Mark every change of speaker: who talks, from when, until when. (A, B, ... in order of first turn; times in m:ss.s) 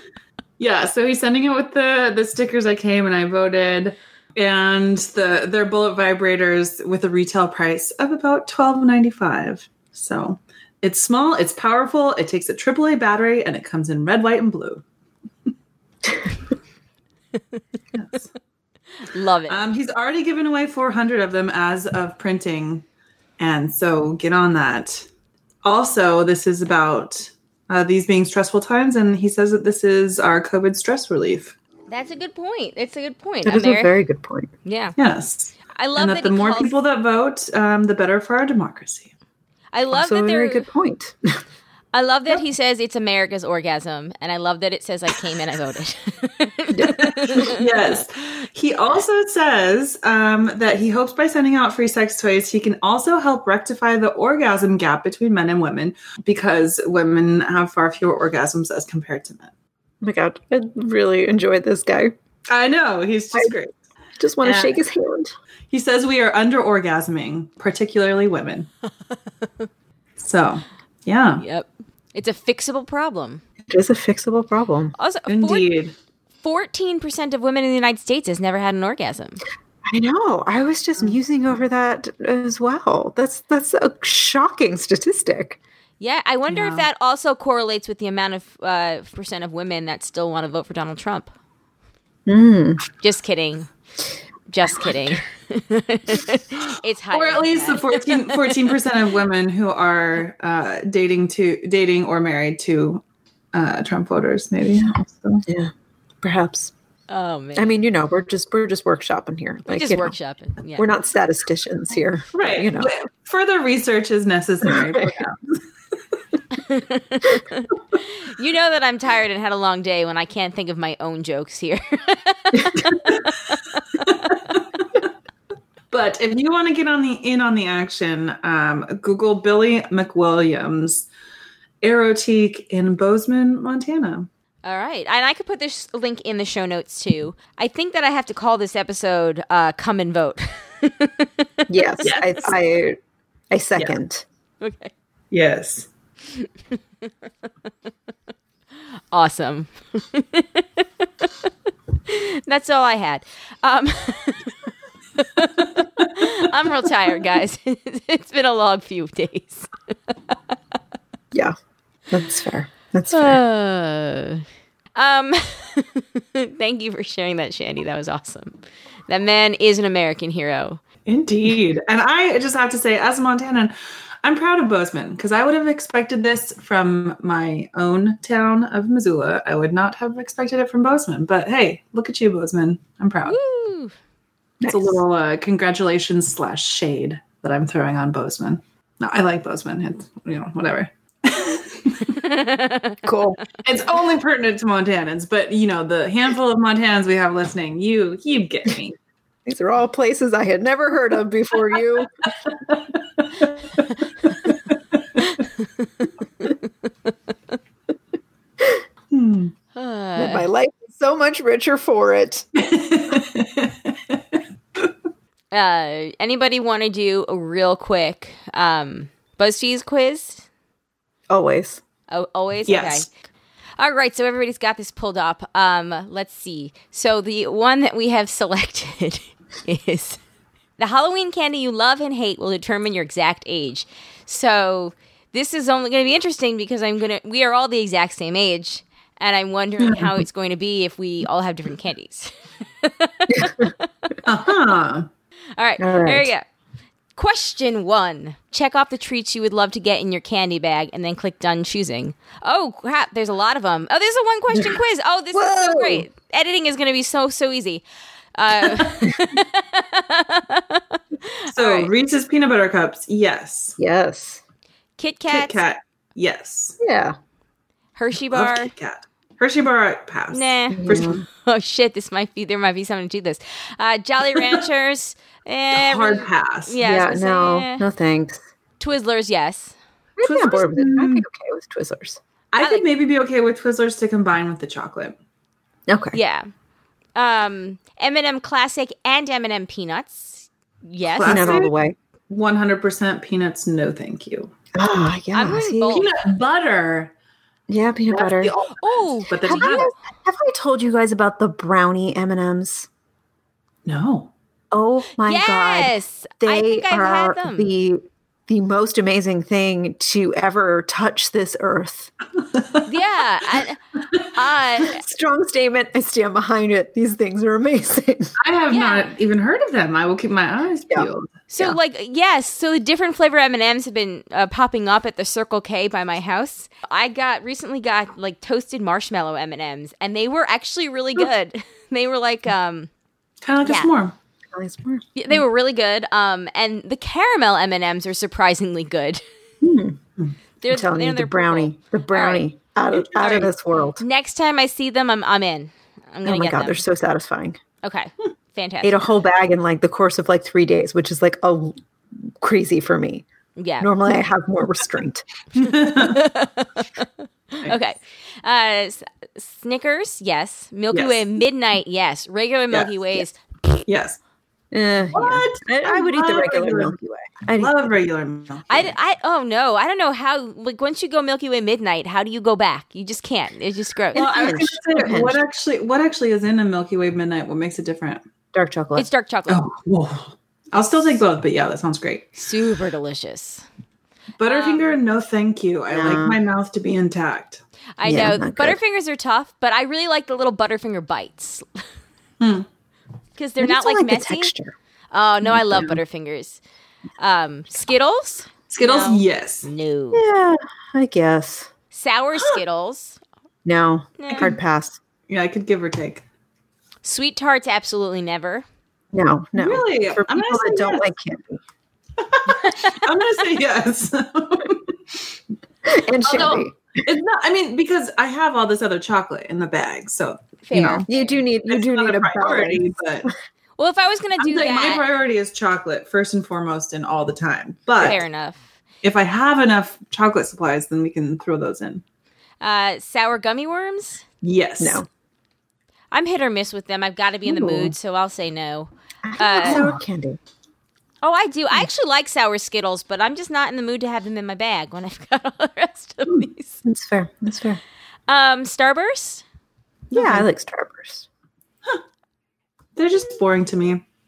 0:00.6-0:14.8 A
0:17.9-0:18.3 A
0:19.1-0:19.6 B
0:19.5-0:22.8 A
0:23.4-0:25.1 A
0:25.6-0:31.6 A
0:31.9-0:33.9 B
0:33.4-0:34.5 C
0:34.6-0:35.0 B
0:35.0-0:39.1 A
0:35.7-0:36.7 B
0:39.7-0:40.7 B
0:39.9-0:41.4 C
0:41.9-0:47.6 B
0:46.7-0:47.5 C
0:47.5-0:59.5 A
1:00.0-1:02.1 C
1:02.5-1:03.7 A
1:04.2-1:05.3 C
1:04.4-1:04.8 A
1:05.7-1:08.7 A
1:10.2-1:11.4 A
1:11.4-1:13.4 B
1:13.7-1:14.9 C
1:15.0-1:15.6 B
1:15.3-1:16.0 A
1:16.4-1:19.4 B
1:19.8-1:25.6 C
1:26.0-1:31.3 B
1:26.6-1:26.8 C
1:32.3-1:32.8 C
1:33.0-1:33.7 B
1:34.5-1:38.2 B
1:37.1-1:43.0 A
1:43.5-1:45.4 A
1:45.5-1:46.7 C
1:47.1-1:47.7 B
1:47.6-1:50.1 C
1:49.6-1:50.9 B
1:50.7-1:52.9 C
1:52.3-1:55.6 A
1:54.7-1:55.1 C
1:56.5-2:03.3 B
2:04.0-2:04.3 A
2:05.9-2:11.1 A
2:11.8-2:14.3 A
2:14.6-2:22.0 B
2:21.7-2:23.0 C
2:22.0-2:22.5 A
2:23.5-2:24.2 C
2:24.6-2:24.9 B
2:25.3-2:25.9 A
2:29.1-2:31.0 B
2:32.1-2:39.7 B
2:42.1-2:43.4 C
2:43.1-2:44.4 B
2:45.0-2:50.8 B
2:51.1-3:03.4 A
3:03.2-3:03.9 B
3:04.6-3:05.0 C
3:04.6-3:12.2 A
3:12.2-3:13.0 B
3:13.0-3:13.4 C
3:13.6-3:19.0 A
3:19.4-3:22.3 C
3:25.2-3:26.5 B
3:29.1-3:29.5 A
3:29.7-3:30.4 B
3:30.2-3:32.4 C
3:32.5-3:34.8 A
3:35.5-3:40.4 B
3:41.3-3:41.8 C
3:42.1-3:43.1 B
3:42.7-3:43.1 A
3:43.8-3:50.2 B
3:50.8-4:03.9 B
4:04.2-4:05.1 A
4:05.6-4:06.4 B
4:05.8-4:06.3 C
4:07.2-4:17.8 B
4:15.3-4:16.0 C
4:18.4-4:21.9 B
4:21.5-4:23.8 A
4:23.8-4:24.4 C
4:25.0-4:25.6 B
4:25.3-4:26.8 A
4:26.8-4:27.2 C
4:28.0-4:28.7 B
4:28.3-4:31.2 A
4:30.3-4:37.8 B
4:30.7-4:31.2 C
4:35.7-4:36.7 A
4:36.8-4:38.4 C
4:38.8-4:39.7 B
4:40.2-4:42.2 C
4:40.2-4:41.2 A
4:42.5-4:45.1 A
4:45.9-4:46.2 C
4:46.1-4:46.5 B
4:47.2-4:51.6 B
4:51.1-4:51.7 A
4:51.2-4:52.0 C
4:52.3-4:54.5 A
4:54.7-4:56.0 C
4:55.3-4:56.1 B
4:55.9-4:57.1 A
4:57.7-4:58.5 C
4:58.1-4:59.9 A
4:58.8-4:59.9 B
4:59.4-5:02.9 C
5:03.8-5:04.3 A
5:04.7-5:12.1 C
5:05.2-5:07.7 B
5:12.9-5:13.8 B
5:14.3-5:15.0 B
5:14.8-5:18.3 C
5:18.4-5:21.3 A
5:18.7-5:19.1 B
5:20.9-5:21.8 C
5:21.5-5:32.9 B
5:33.4-5:34.1 A
5:33.6-5:33.9 B
5:34.5-5:35.4 C
5:35.2-5:39.2 B
5:39.6-5:40.0 C
5:40.6-5:42.4 B
5:40.7-5:44.0 C
5:42.9-5:43.4 A
5:43.2-5:43.4 B
5:44.0-5:46.8 B
5:46.2-5:47.6 C
5:47.8-5:49.0 B
5:48.8-5:53.2 C
5:53.6-5:53.9 B
5:53.8-5:55.2 C
5:55.6-5:56.2 A
5:55.9-6:03.8 B
6:00.9-6:01.2 A
6:03.9-6:04.2 A
6:04.7-6:07.8 C
6:05.1-6:06.9 A
6:07.6-6:08.9 A
6:08.7-6:14.6 B
6:14.1-6:15.4 C
6:14.1-6:18.2 A
6:18.5-6:19.1 C
6:19.0-6:19.6 B
6:19.5-6:22.4 A
6:22.4-6:23.6 B
6:24.4-6:27.6 A
6:24.4-6:24.9 B
6:25.9-6:26.4 C
6:28.0-6:31.8 B
6:28.0-6:28.8 C
6:32.4-6:32.7 A
6:33.4-6:34.5 B
6:33.6-6:34.7 C
6:35.1-6:36.6 B
6:35.4-6:36.0 C
6:37.2-6:40.2 B
6:38.7-6:39.7 A
6:40.1-6:41.7 C
6:41.9-6:43.2 B
6:43.6-6:45.0 C
6:44.2-6:44.5 B
6:45.3-6:46.2 A
6:47.0-6:48.6 B
6:49.1-6:51.6 C
6:49.6-6:51.1 A
6:52.2-6:54.9 A
6:52.6-6:53.2 B
6:55.8-6:56.9 C
6:56.2-7:01.0 A
7:00.6-7:01.4 B
7:01.1-7:03.3 C
7:01.7-7:03.3 A
7:03.8-7:05.0 B
7:04.4-7:08.2 A
7:08.0-7:08.6 B
7:09.0-7:12.0 A
7:12.6-7:14.2 B
7:14.4-7:15.0 A
7:14.8-7:15.1 C
7:16.1-7:19.8 B
7:17.4-7:17.9 C
7:19.2-7:20.4 C
7:19.6-7:20.0 A
7:21.2-7:26.8 B
7:26.8-7:27.8 C
7:28.3-7:29.4 B
7:30.1-7:30.5 A
7:30.1-7:31.3 C
7:33.0-7:34.0 A